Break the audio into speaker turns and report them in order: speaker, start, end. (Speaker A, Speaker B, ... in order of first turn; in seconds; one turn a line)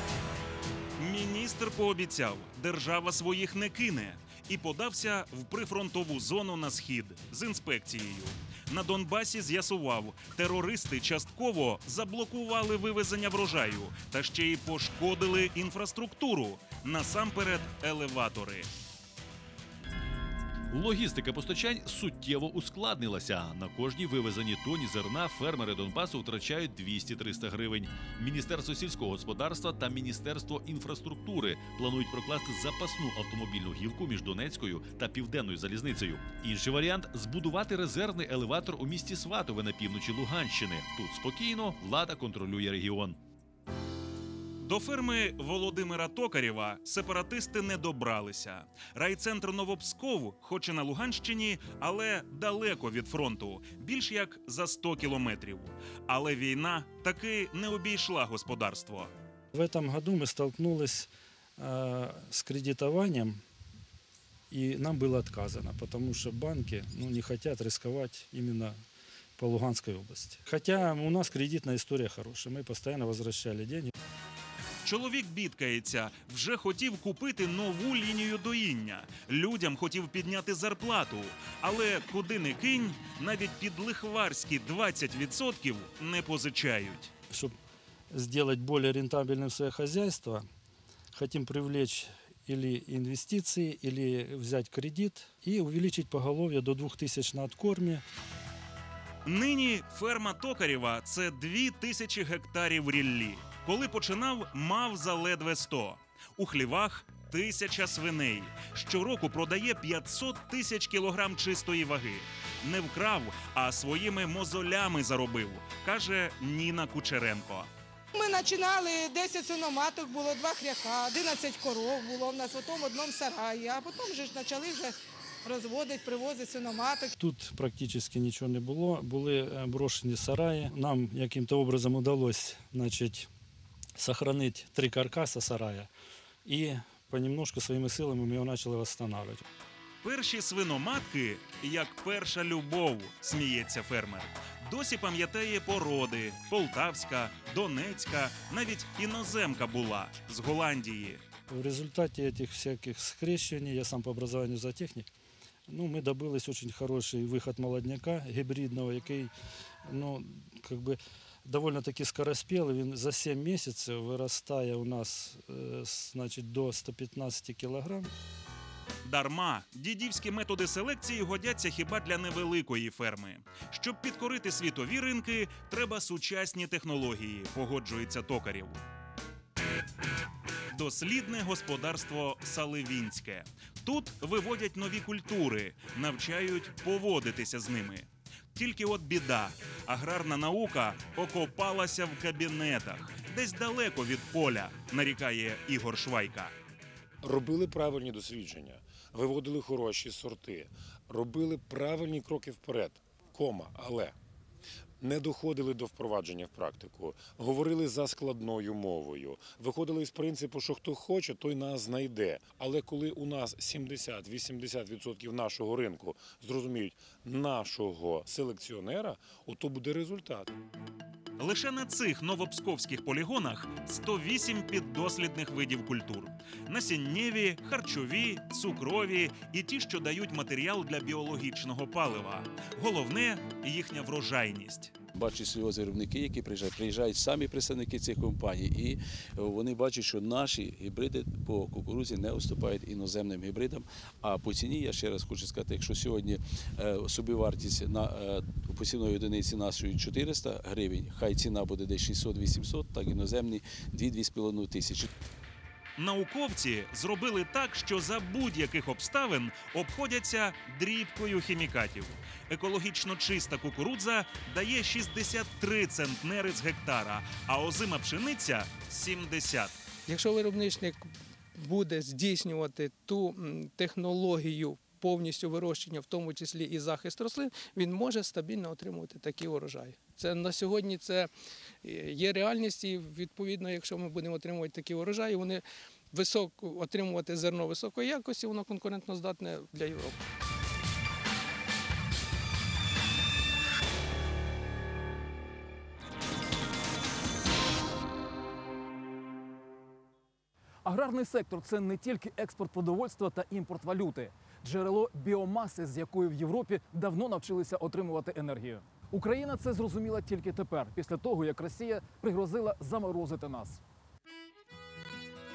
Speaker A: 1.0-18.7
Speaker B: 20.7-43.2
Speaker A: 44.6-59.1
Speaker C: 59.5-63.4
Speaker C: 64.5-68.8
Speaker C: 69.4-73.9
Speaker A: 74.8-87.1
Speaker C: 88.1-90.4
Speaker C: 91.1-98.0
Speaker A: 99.2-117.7
Speaker D: 118.1-127.1
Speaker C: 127.2-133.3
Speaker C: 134.0-135.9
Speaker C: 136.4-139.4
Speaker A: 140.0-151.2
Speaker C: 151.5-155.1
Speaker C: 155.7-159.3
Speaker C: 159.9-168.1
Speaker A: 169.0-178.8
Speaker A: 180.7-196.5
Speaker E: 197.2-204.1
Speaker E: 205.0-220.5
Speaker A: 221.4-234.9
Speaker F: 235.1-255.1
Speaker A: 256.0-269.8
Speaker G: 270.1-281.3
Speaker G: 281.8-290.2
Speaker H: 300.8-313.8